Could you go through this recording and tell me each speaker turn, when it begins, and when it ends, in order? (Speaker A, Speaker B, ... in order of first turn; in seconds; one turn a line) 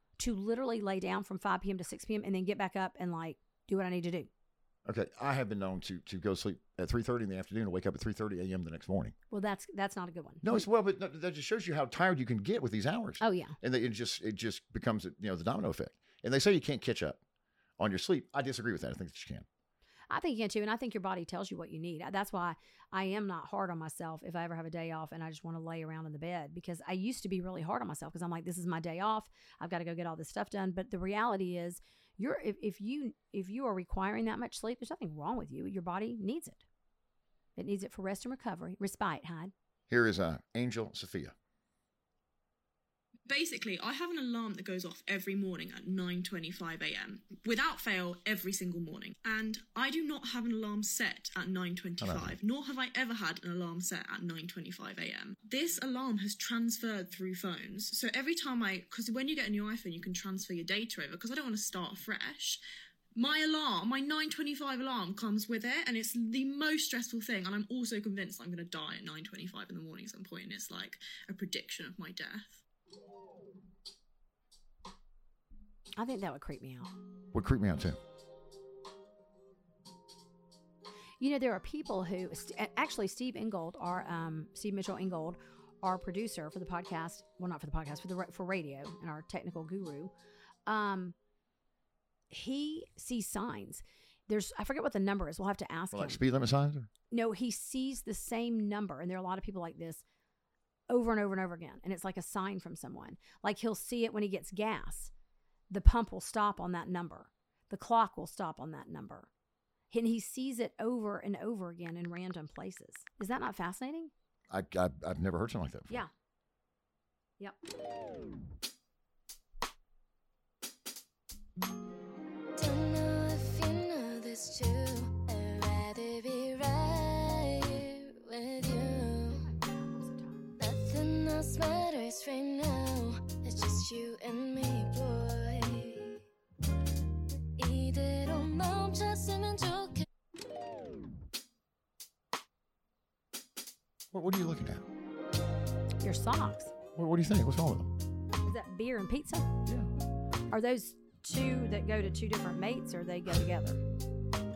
Speaker A: 0.2-4.3
Speaker B: 4.9-9.1
Speaker A: 9.3-10.7
Speaker B: 10.4-17.2
Speaker A: 13.2-13.6
Speaker B: 17.8-19.5
Speaker A: 20.1-36.6
Speaker A: 37.6-39.5
Speaker B: 39.9-41.3
Speaker C: 43.3-62.6
Speaker B: 52.0-52.4
Speaker C: 63.1-72.6
Speaker A: 76.0-76.9
Speaker B: 77.3-78.0
Speaker A: 81.2-90.1
Speaker A: 90.7-91.2
Speaker A: 92.3-96.2
Speaker B: 95.9-96.9
Speaker A: 97.1-100.0
Speaker A: 100.9-105.1
Speaker A: 105.7-109.3
Speaker A: 109.9-114.1
Speaker B: 114.5-116.0
Speaker D: 122.6-129.5
Speaker A: 129.3-130.5
Speaker D: 130.6-136.2
Speaker D: 137.6-140.0
Speaker B: 144.1-144.8
Speaker A: 146.0-146.7
Speaker B: 146.9-147.9
Speaker A: 148.4-149.5
Speaker A: 150.5-153.8